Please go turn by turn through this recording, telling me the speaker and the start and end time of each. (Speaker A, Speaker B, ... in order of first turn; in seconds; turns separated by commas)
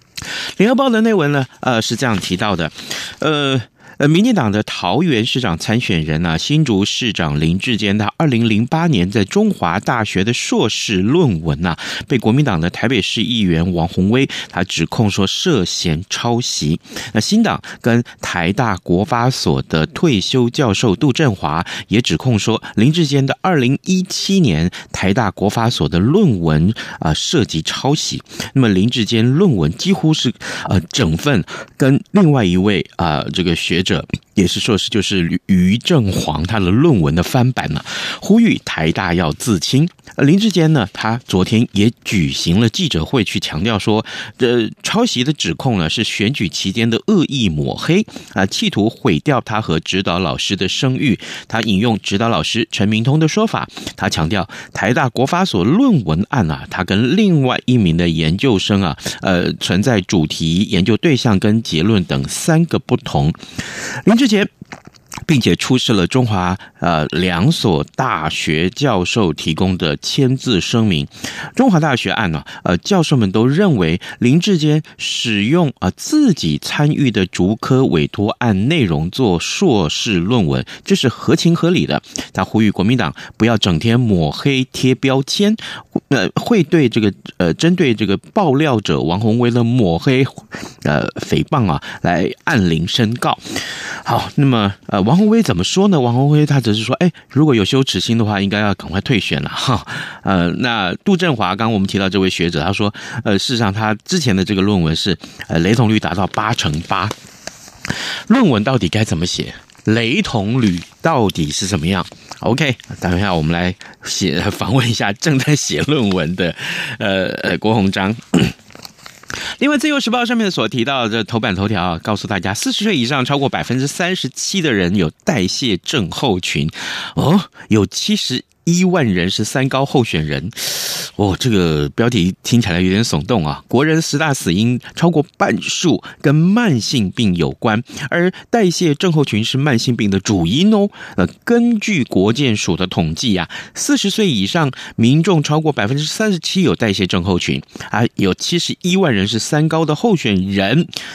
Speaker A: 0.2-64.5, Speaker A: 65.2-107.1, Speaker A: 107.9-118.5, Speaker A: 119.6-150.9